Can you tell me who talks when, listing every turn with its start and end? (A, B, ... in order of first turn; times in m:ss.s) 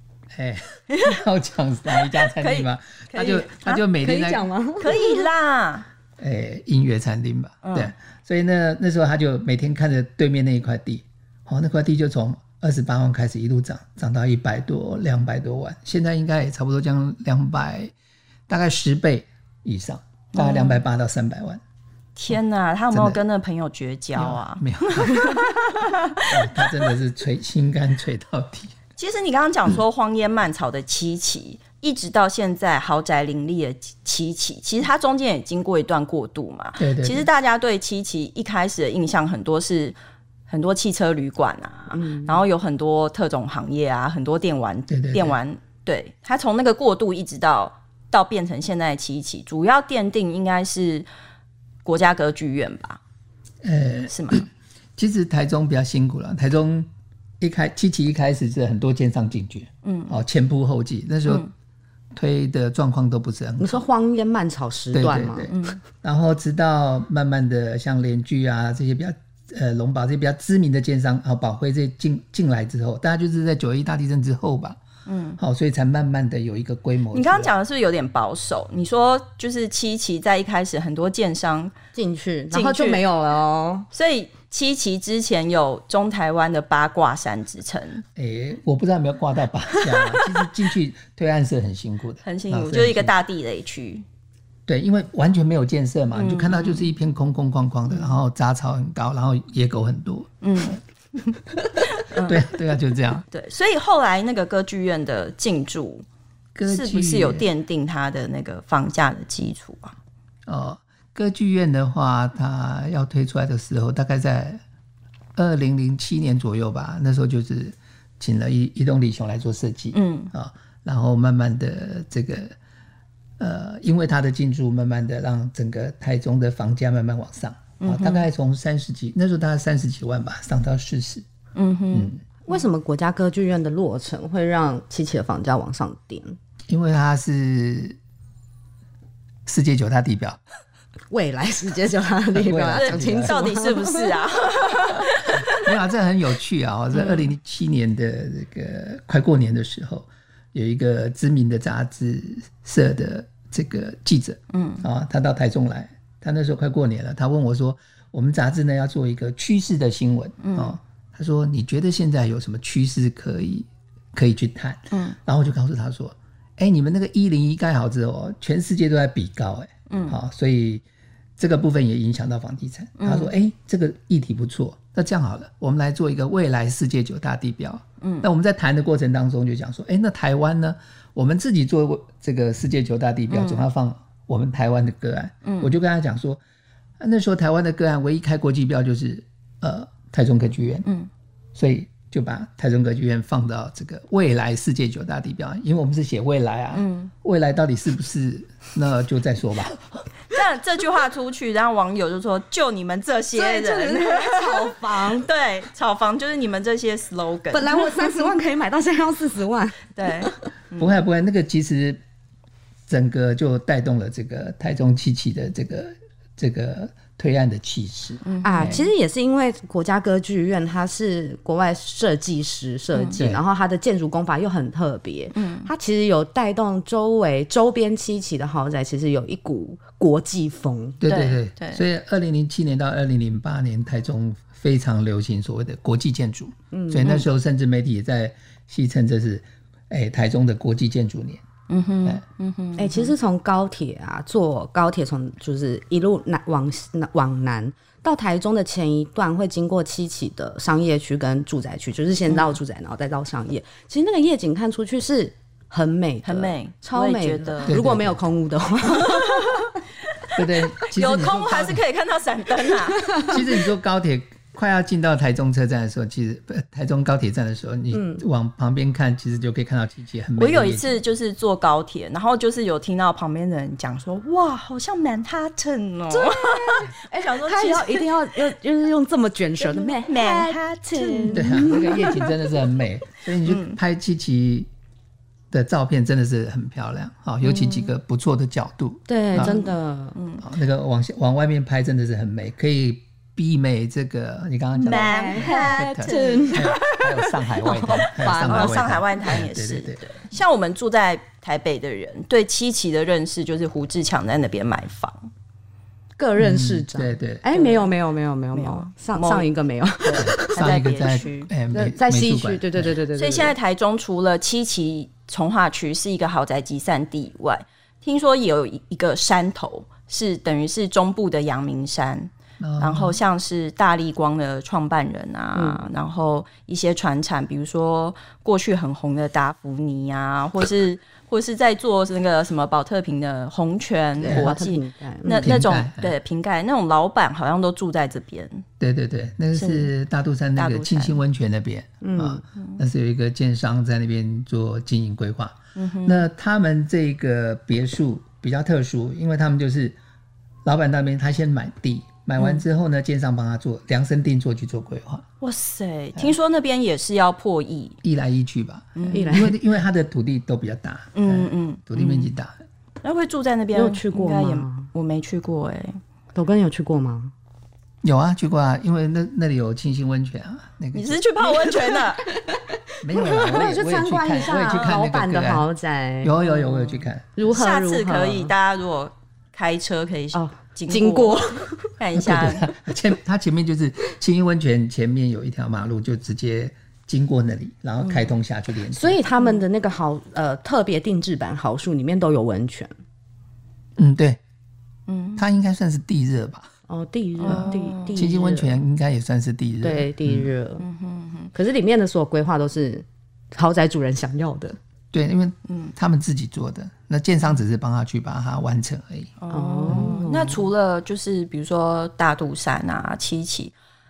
0:00.3-0:04.5 A
0:00.9-0:01.2 B
0:01.9-0:03.8 B
0:04.0-0:05.3 C
0:04.8-0:05.8 B
0:06.2-0:17.9 A
0:07.6-0:07.9 B
0:18.5-0:21.6 A
0:20.3-0:20.8 B
0:22.2-0:26.7 B
0:22.9-0:23.2 A
0:24.2-0:25.5 A
0:26.2-0:28.7 A
0:29.0-0:40.0 B
0:36.8-0:37.3 A
0:40.5-0:51.1 B
0:41.9-0:42.3 C
0:44.9-0:45.4 A
0:51.8-0:53.0 B
0:53.6-0:54.4 A
0:54.1-0:54.5 B
0:55.0-0:56.9 A
0:57.4-1:01.4 A
0:59.8-1:00.2 B
1:02.1-1:03.8 A
1:03.6-1:05.5 C
1:04.9-1:14.8 A
1:05.5-1:05.8 B
1:15.0-1:15.4 B
1:15.4-1:17.5 A
1:17.1-1:21.7 B
1:21.9-1:23.9 C
1:22.5-1:23.0 B
1:23.9-1:28.0 B
1:28.2-1:33.1 A
1:29.8-1:30.3 B
1:32.2-1:34.0 B
1:34.7-1:40.3 A
1:36.1-1:36.9 B
1:37.9-1:38.2 B
1:40.4-1:41.3 B
1:41.9-1:42.5 B
1:42.2-1:43.2 A
1:43.3-1:46.0 B
1:46.5-1:47.4 A
1:46.7-1:49.9 B
1:50.5-1:54.6 A
1:55.3-2:02.5 A
1:59.9-2:00.3 B
2:03.4-2:11.2 A
2:07.8-2:08.2 B
2:11.5-2:12.1 B
2:12.4-2:16.4 C
2:16.7-2:18.0 A
2:19.4-2:20.4 A
2:21.1-2:24.2 C
2:22.3-2:23.4 A
2:22.8-2:25.7 B
2:25.3-2:50.8 A
2:26.9-2:27.3 B
2:34.5-2:34.8 B
2:40.4-2:40.8 B
2:49.9-2:50.2 B
2:51.4-3:06.4 A
2:53.0-2:53.3 B
2:58.0-2:58.2 B
3:03.3-3:03.6 B
3:05.4-3:05.7 B
3:07.0-3:10.8 A
3:11.5-3:20.0 A
3:16.7-3:17.1 B
3:20.3-3:28.2 B
3:23.3-3:25.3 C
3:27.5-3:30.4 C
3:29.9-3:30.9 B
3:30.8-3:32.0 A
3:32.9-3:38.8 A
3:38.2-3:38.8 B
3:38.4-3:51.0 C
3:42.9-3:43.2 B
3:45.3-3:45.7 B
3:51.0-4:01.4 A
3:51.0-3:51.8 B
3:56.7-3:57.2 C
4:01.7-4:03.1 B
4:02.8-4:19.8 C
4:16.2-4:17.8 B
4:17.7-4:18.2 A
4:19.0-4:20.4 B
4:20.3-4:21.8 A
4:20.9-4:23.3 B
4:23.0-4:23.4 C
4:23.2-4:31.0 A
4:27.9-4:28.2 C
4:30.4-4:38.1 B
4:36.1-4:42.1 C
4:39.6-4:42.3 B
4:41.3-4:44.7 A
4:43.4-4:43.8 B
4:45.5-4:49.6 A
4:47.5-4:47.8 B
4:49.1-4:50.2 C
4:49.3-4:50.4 B
4:50.4-5:00.0 A
4:54.8-4:58.9 C
4:54.8-4:57.0 B
4:58.3-5:05.3 B
5:06.2-5:10.7 C
5:06.4-5:07.4 A
5:07.5-5:07.8 B
5:08.5-5:09.4 B
5:10.0-5:11.5 B
5:10.2-5:12.9 A
5:11.7-5:13.6 C
5:13.1-5:38.6 B
5:22.6-5:23.2 A
5:25.5-5:25.8 C
5:34.2-5:34.5 A
5:34.2-5:35.6 C
5:35.3-5:36.1 A
5:38.8-5:50.0 A
5:39.5-5:39.9 B
5:40.6-5:41.2 B
5:42.0-5:42.4 C
5:45.7-5:46.2 B
5:50.6-5:55.2 A
5:52.4-5:52.6 B
5:55.4-5:58.0 B
5:58.0-6:02.5 A
5:59.0-5:59.4 B
5:59.1-5:59.6 C
6:01.1-6:02.3 B
6:03.0-6:06.0 B
6:03.7-6:04.9 C
6:06.3-6:07.3 C
6:08.0-6:11.2 A
6:10.9-6:12.3 B
6:11.9-6:16.6 C
6:13.0-6:15.6 A
6:14.4-6:15.0 B
6:16.2-6:17.4 A
6:16.4-6:17.0 B
6:17.4-6:18.5 C
6:17.5-6:22.7 B
6:20.3-6:21.9 C
6:22.1-6:29.2 A
6:28.9-6:32.9 C
6:34.0-6:34.4 A
6:35.1-6:35.4 B
6:35.4-6:36.7 A
6:36.9-6:38.8 C
6:37.4-6:38.2 B
6:37.5-6:40.5 A
6:39.8-6:40.8 C
6:40.8-6:41.5 B
6:41.5-6:44.8 C
6:45.1-6:49.3 A
6:45.7-6:45.9 B
6:49.4-6:53.7 B
6:49.5-6:50.6 C